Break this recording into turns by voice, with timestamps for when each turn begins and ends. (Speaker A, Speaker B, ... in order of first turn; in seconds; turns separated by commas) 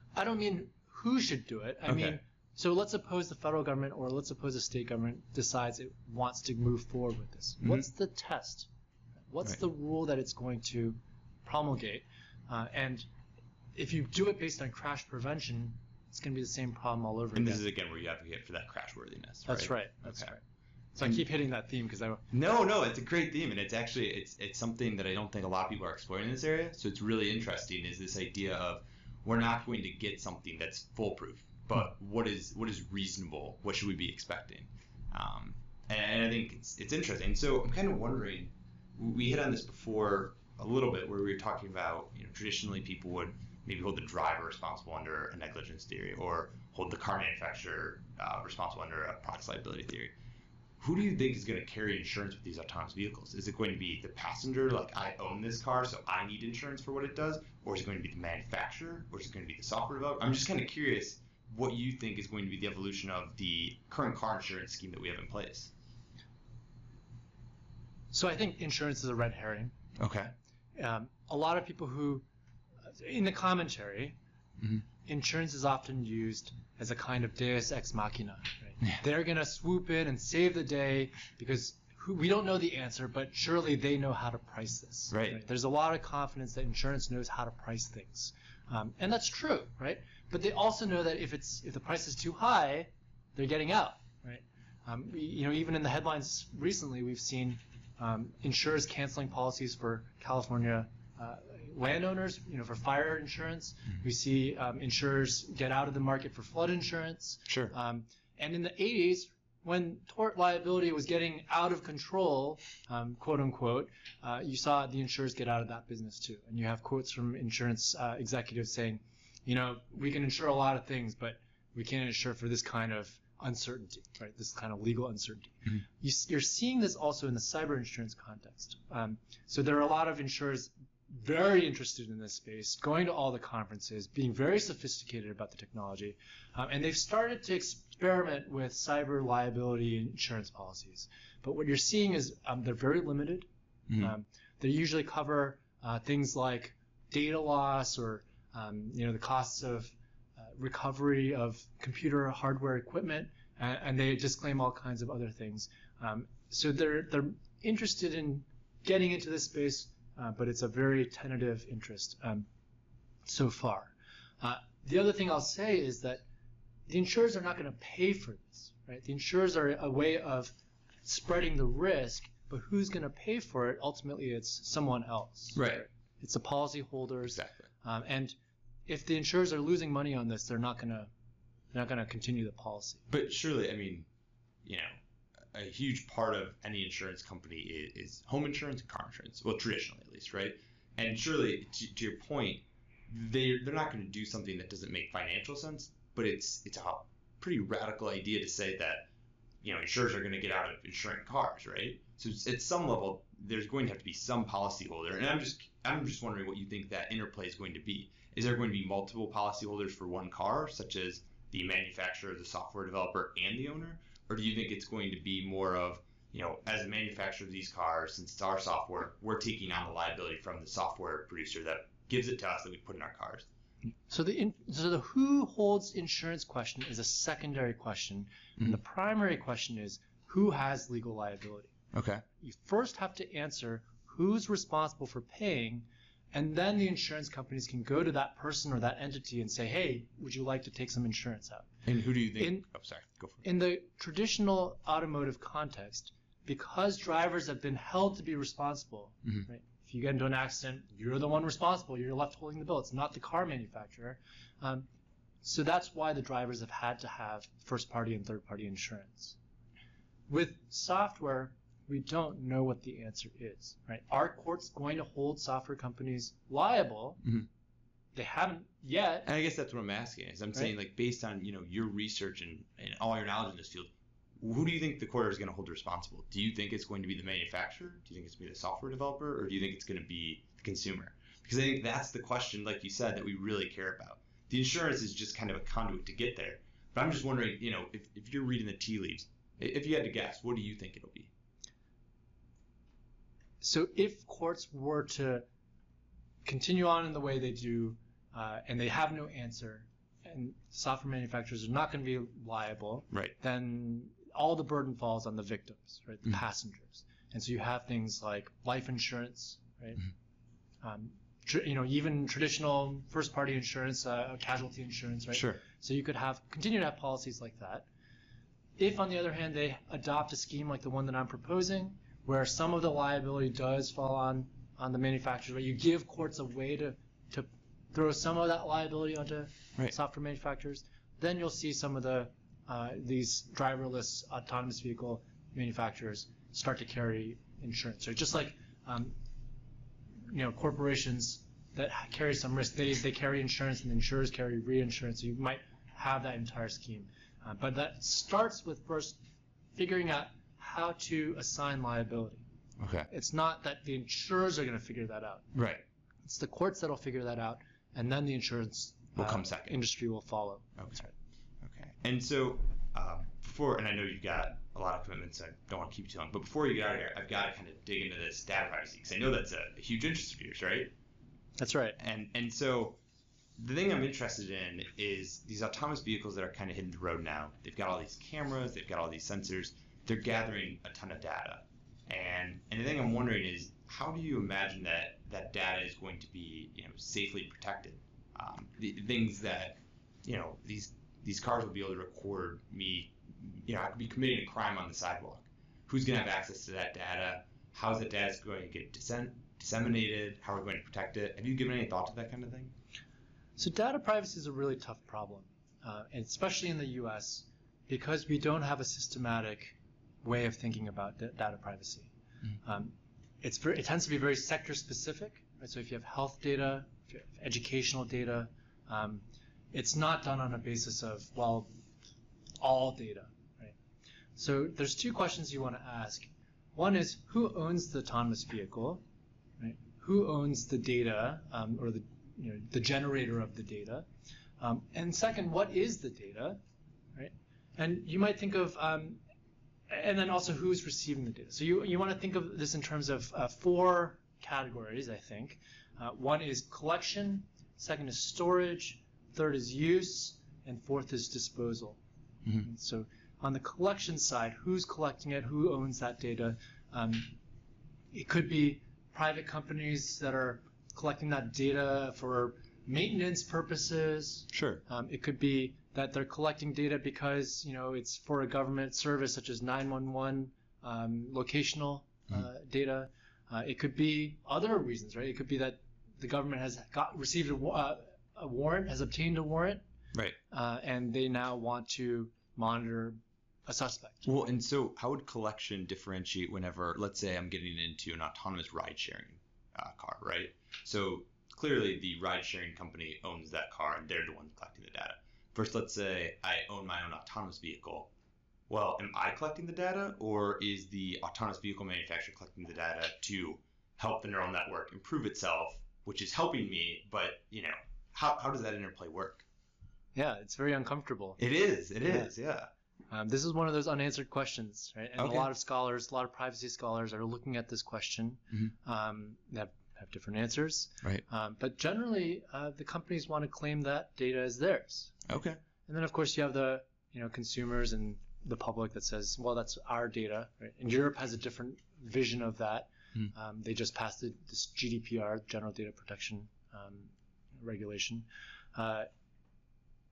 Speaker A: 0.1-8.7, Speaker B: 1.9-2.2, Speaker A: 9.3-13.1, Speaker A: 13.7-17.6, Speaker B: 17.3-20.3, Speaker A: 19.5-20.4, Speaker A: 20.9-22.2, Speaker B: 22.3-50.1, Speaker B: 50.8-65.7, Speaker A: 68.1-69.8, Speaker B: 70.0-70.3, Speaker A: 70.7-72.2, Speaker A: 72.9-74.2, Speaker A: 75.0-162.5, Speaker B: 85.1-85.4, Speaker B: 107.5-107.7, Speaker A: 163.2-166.2, Speaker A: 166.9-170.5, Speaker A: 171.0-178.3, Speaker B: 175.5-175.8, Speaker B: 177.2-177.7, Speaker A: 178.9-181.1, Speaker A: 181.7-183.0, Speaker B: 183.1-184.1, Speaker B: 184.6-185.0, Speaker B: 185.5-199.1, Speaker B: 199.6-223.5, Speaker A: 224.1-231.8, Speaker B: 231.9-232.2, Speaker A: 232.4-241.7, Speaker B: 241.8-243.4, Speaker A: 242.3-242.7, Speaker A: 243.4-254.9, Speaker A: 255.4-259.4, Speaker A: 260.3-267.2, Speaker A: 268.1-269.3, Speaker B: 269.2-291.3, Speaker A: 293.6-295.4, Speaker A: 296.4-310.1, Speaker A: 310.8-317.9, Speaker B: 315.3-315.6, Speaker A: 318.8-339.1, Speaker A: 340.2-349.2, Speaker A: 349.7-352.4, Speaker B: 352.8-353.1, Speaker A: 353.1-355.5, Speaker B: 355.5-355.8, Speaker A: 356.2-361.1, Speaker B: 359.1-359.8, Speaker B: 361.6-370.9, Speaker A: 371.6-372.0, Speaker B: 372.0-373.0, Speaker B: 373.6-402.7, Speaker A: 403.6-412.1, Speaker A: 412.6-421.7, Speaker A: 422.6-423.7, Speaker A: 424.4-429.0, Speaker A: 429.6-434.1, Speaker A: 434.6-436.6, Speaker A: 437.1-439.2, Speaker A: 439.9-452.0, Speaker A: 452.6-457.4, Speaker A: 458.1-479.8, Speaker B: 464.5-464.8, Speaker A: 480.5-484.4, Speaker B: 484.2-498.1, Speaker B: 498.7-509.4, Speaker A: 510.1-511.4, Speaker B: 511.4-512.7, Speaker A: 512.0-512.3, Speaker A: 513.1-525.2, Speaker B: 515.2-515.5, Speaker B: 525.3-525.6, Speaker A: 525.9-539.1